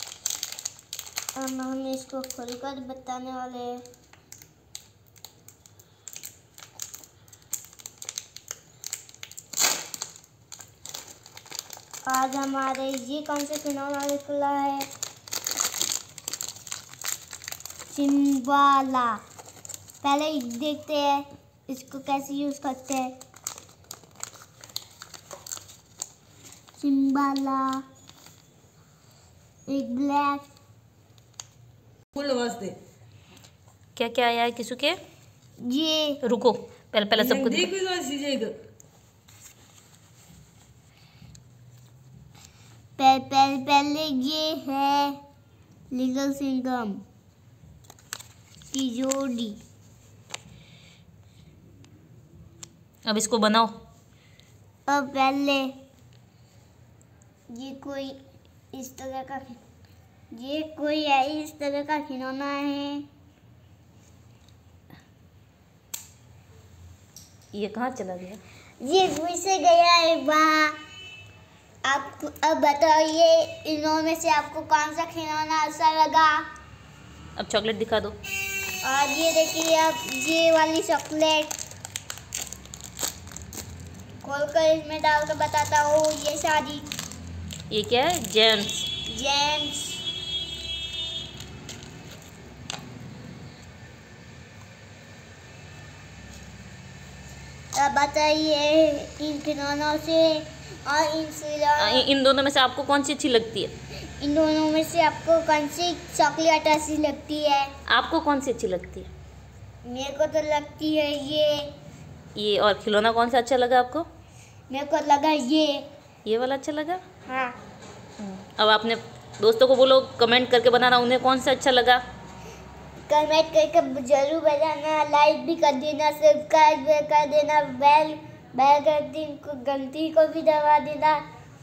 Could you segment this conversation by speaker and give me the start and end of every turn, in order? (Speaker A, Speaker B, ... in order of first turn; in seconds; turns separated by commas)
Speaker A: 1.4-3.9, Speaker A: 12.1-14.9, Speaker A: 17.9-19.2, Speaker A: 20.0-23.1, Speaker A: 26.8-27.8, Speaker A: 29.7-30.4, Speaker B: 32.1-32.8, Speaker C: 34.0-35.0, Speaker A: 35.6-36.2, Speaker C: 36.2-37.7, Speaker B: 37.2-38.5, Speaker A: 43.0-45.2, Speaker A: 45.9-47.0, Speaker A: 48.7-49.6, Speaker C: 53.0-53.7, Speaker A: 54.9-55.8, Speaker A: 57.5-58.2, Speaker A: 58.7-59.6, Speaker A: 60.3-63.0, Speaker C: 67.5-68.4, Speaker A: 68.8-70.8, Speaker A: 71.9-76.4, Speaker C: 77.4-78.2, Speaker A: 78.8-81.6, Speaker A: 84.2-86.9, Speaker C: 87.7-88.9, Speaker A: 89.1-90.0, Speaker A: 97.8-102.1, Speaker C: 101.8-103.7, Speaker A: 104.2-107.7, Speaker C: 107.9-109.1, Speaker A: 109.8-111.7, Speaker C: 112.4-114.0, Speaker A: 114.7-115.8, Speaker C: 116.2-117.0, Speaker A: 117.3-117.5, Speaker C: 118.2-122.0, Speaker A: 123.1-131.2